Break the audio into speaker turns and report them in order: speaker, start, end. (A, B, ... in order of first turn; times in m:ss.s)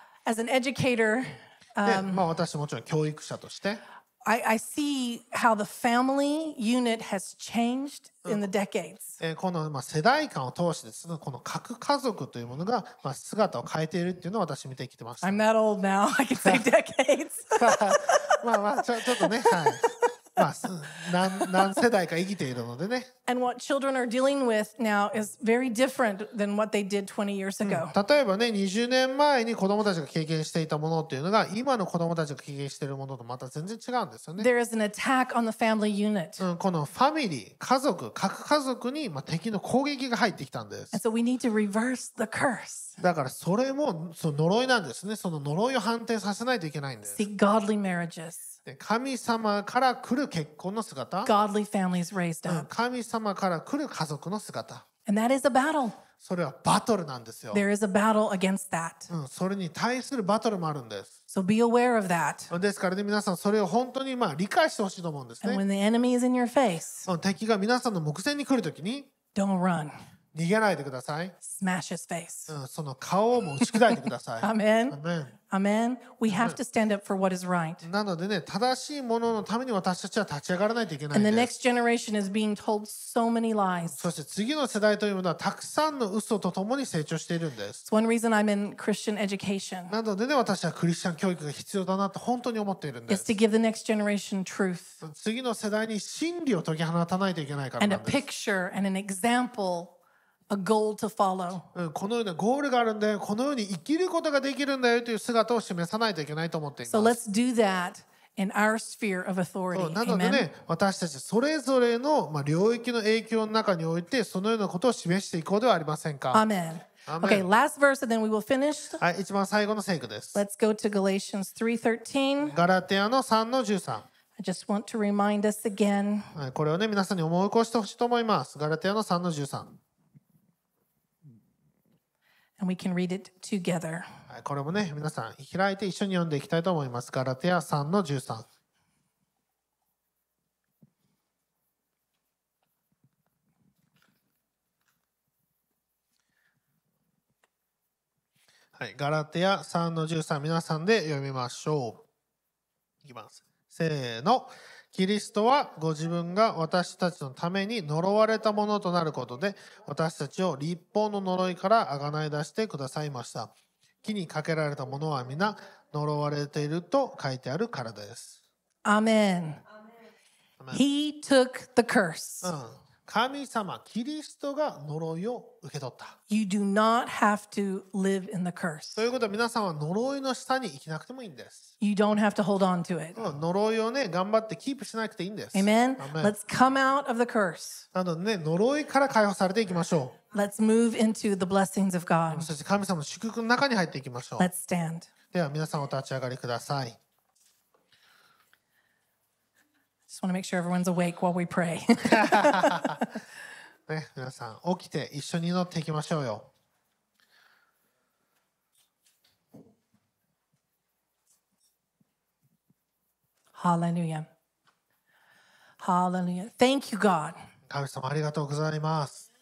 0:00.3-0:02.2 A
0:01.8-0:03.8 B
0:04.2-0:09.2 A
0:09.2-0:15.4 B
0:15.2-0:18.4 A
0:17.6-0:23.1 B
0:19.1-0:20.1 A
0:21.2-0:21.7 A
0:23.3-0:28.0 A
0:27.6-0:34.5 B
0:34.4-0:36.4 A
0:36.4-0:41.0 B
0:40.9-0:43.0 A
0:43.0-0:47.3 B
0:47.1-0:48.5 A
0:48.7-0:51.3 B
0:51.2-0:52.7 A
0:52.5-0:54.8 B
0:55.1-0:56.0 A
0:56.2-0:57.6 B
0:57.5-0:59.1 A
0:59.1-1:01.1 B
1:01.3-1:02.5 A
1:02.5-1:05.6 B
1:05.4-1:07.1 A
1:07.1-1:09.1 B
1:09.4-1:10.0 A
1:10.3-1:11.4 B
1:11.4-1:12.5 A
1:12.5-1:15.4 B
1:13.6-1:15.0 A
1:15.5-1:17.8 A
1:16.3-1:16.6 B
1:17.8-1:21.5 B
1:21.1-1:24.1 A
1:23.9-1:27.8 B
1:27.9-1:29.9 A
1:29.9-1:33.3 B
1:33.1-1:35.0 A
1:35.0-1:38.2 B
1:37.8-1:40.0 A
1:40.5-1:41.7 A
1:41.7-1:47.2 B
1:46.9-1:50.5 A
1:49.7-1:56.4 B
1:56.3-1:59.0 A
1:57.1-1:57.5 B
1:59.0-2:00.4 B
2:00.4-2:02.6 A
2:02.5-2:04.1 B
2:04.4-2:06.3 A
2:06.4-2:09.8 B
2:12.6-2:14.1 A
2:14.3-2:18.5 B
2:28.8-2:32.0 B
2:33.0-2:43.5 B
2:44.0-2:48.4 B
2:48.8-2:49.6 A
2:50.7-2:52.5 A
2:52.4-2:56.2 B
2:56.3-2:59.1 A
2:59.0-3:01.7 B
3:01.8-3:03.2 A
3:03.2-3:06.3 B
3:05.5-3:07.8 A
3:07.9-3:10.2 B
3:10.3-3:12.5 A
3:12.3-3:14.5 B
3:14.4-3:15.1 A
3:15.3-3:17.0 B
3:20.1-3:23.2 A
3:22.0-3:23.0 B
3:23.9-3:26.5 B
3:33.6-3:34.3 A
3:35.8-3:37.4 A
3:37.7-3:39.3 B